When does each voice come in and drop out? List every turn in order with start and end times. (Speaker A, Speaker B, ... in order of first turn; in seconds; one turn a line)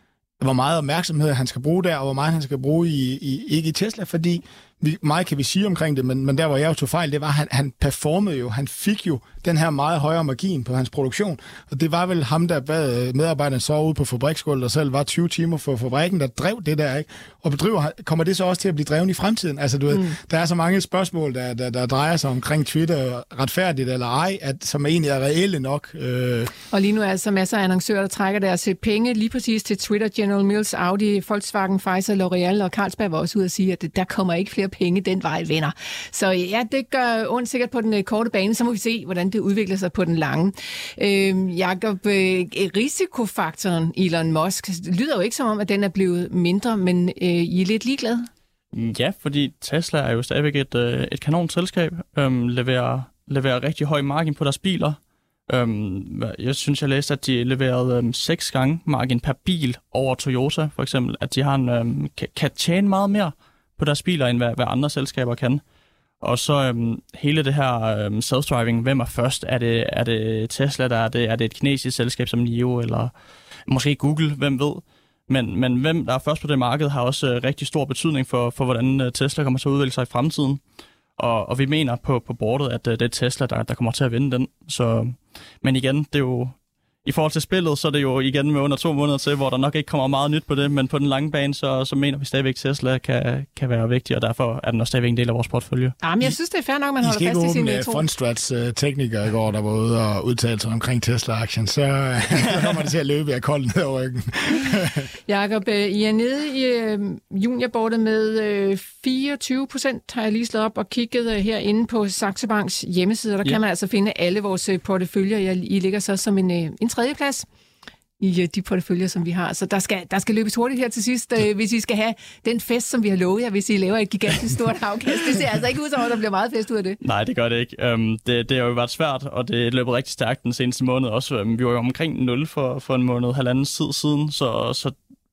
Speaker A: 0.4-26.5
Speaker B: 26.7-48.3
Speaker C: 48.7-55.0
Speaker C: 55.5-65.6
Speaker C: 66.2-73.1
Speaker C: 73.7-80.6
Speaker C: 81.2-96.0
Speaker B: 96.0-98.0
Speaker A: 97.0-105.1
Speaker B: 105.3-117.5
Speaker B: 118.2-127.0
Speaker C: 127.0-134.9